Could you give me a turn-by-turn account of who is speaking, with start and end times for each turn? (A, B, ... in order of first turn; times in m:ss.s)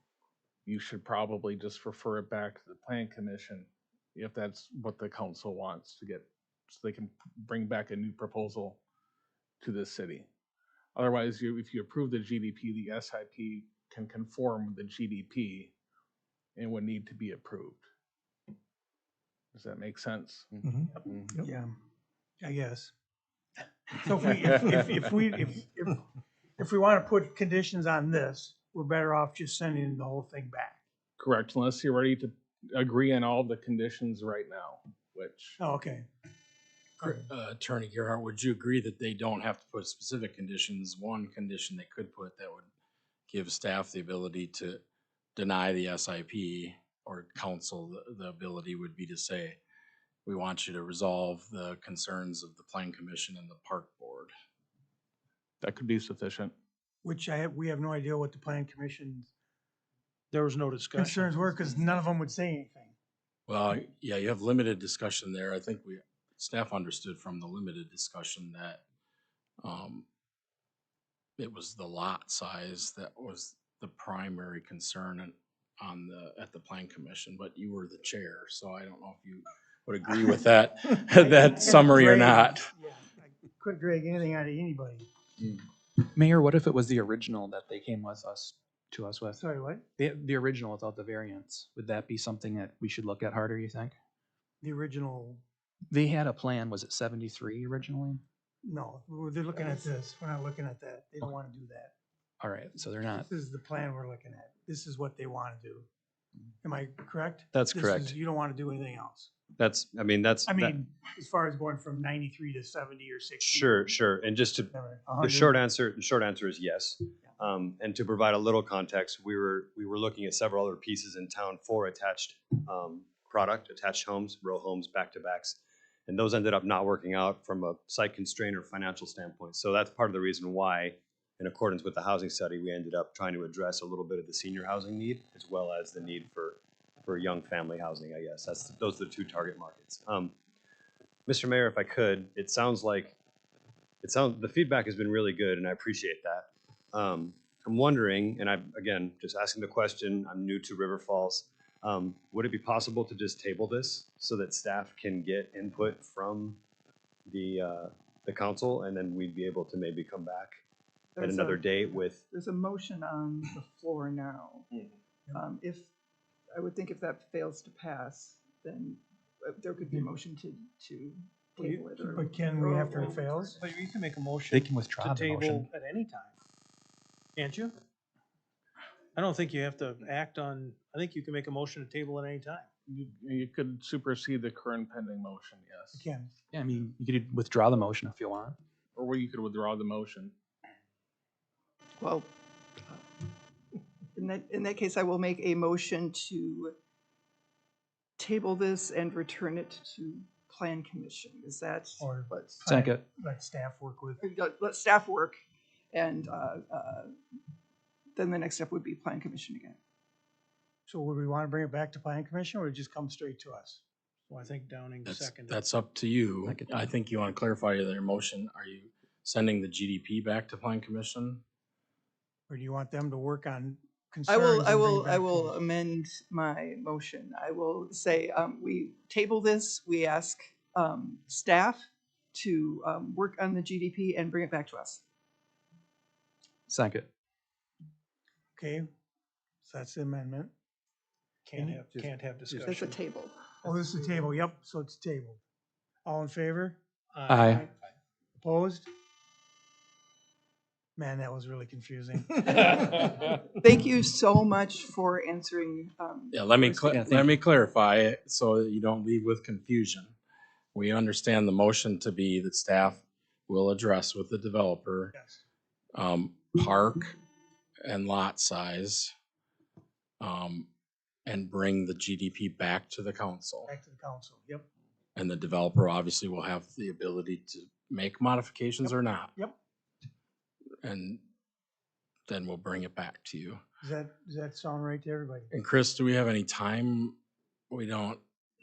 0:00.6-0:08.8 A
0:09.6-0:10.3 A
0:11.0-0:15.7 A
0:16.6-0:17.9 A
0:19.5-0:20.6 A
0:21.4-0:21.7 B
0:22.4-0:22.9 B
0:23.9-0:26.0 B
0:26.6-0:30.8 B
0:31.2-0:35.6 A
0:35.6-0:36.1 B
0:37.0-0:37.3 B
0:37.0-0:42.7 C
0:43.3-0:44.8 C
0:45.4-0:49.6 C
0:50.2-0:54.3 C
0:55.6-0:56.5 A
0:57.0-0:59.3 B
1:00.3-1:02.0 D
1:01.0-1:03.0 B
1:03.5-1:08.8 C
1:09.6-1:10.0 C
1:11.4-1:22.7 C
1:21.2-1:25.1 B
1:26.0-1:29.5 E
1:29.4-1:29.8 B
1:30.0-1:34.0 E
1:34.6-1:35.4 B
1:35.9-1:38.2 E
1:38.6-1:41.9 B
1:42.4-1:43.3 E
1:43.3-1:45.9 B
1:46.6-1:49.3 B
1:47.5-1:48.2 F
1:49.6-1:50.8 F
1:50.5-1:53.8 B
1:53.4-2:20.3 F
1:54.7-1:55.6 B
2:21.3-2:23.2 F
2:24.0-2:36.6 F
2:37.3-2:40.6 F
2:41.2-2:44.7 G
2:41.2-2:42.2 F
2:45.3-2:45.9 G
2:46.5-2:53.4 G
2:51.6-2:53.6 B
2:53.0-2:56.4 D
2:54.5-2:55.7 E
2:57.4-2:57.8 D
2:59.2-3:02.7 D
3:02.9-3:06.1 A
3:05.9-3:06.3 B
3:06.5-3:08.6 E
3:09.0-3:10.3 A
3:12.0-3:13.1 G
3:14.2-3:16.8 G
3:18.2-3:22.6 G
3:22.0-3:24.2 B
3:22.6-3:23.0 E
3:24.2-3:25.4 G
3:25.9-3:27.1 G
3:28.2-3:29.8 G
3:30.9-3:33.8 B
3:34.3-3:35.6 D
3:35.0-3:41.4 C
3:36.4-3:36.9 E
3:42.5-3:45.6 B
3:44.3-3:55.0 G
3:56.7-3:57.1 E
3:58.6-3:58.9 B
3:59.6-4:00.5 B
4:01.4-4:03.0 D
4:01.6-4:02.1 B
4:02.6-4:03.5 G
4:03.6-4:04.4 D
4:03.7-4:05.4 B
4:06.0-4:06.8 B
4:07.1-4:07.6 D
4:07.3-4:07.7 E
4:08.4-4:08.9 B
4:11.0-4:13.0 B
4:13.6-4:16.6 G
4:16.3-4:20.2 C
4:20.7-4:25.1 C
4:25.1-4:25.4 B
4:25.9-4:27.2 C
4:27.8-4:29.1 C
4:30.2-4:30.7 C
4:31.3-4:33.7 C
4:33.7-4:34.6 B
4:35.2-4:39.3 C
4:38.8-4:39.6 B
4:40.8-4:41.2 C
4:42.3-4:43.6 C
4:43.8-4:45.5 B
4:45.5-4:47.2 C
4:47.7-4:48.2 C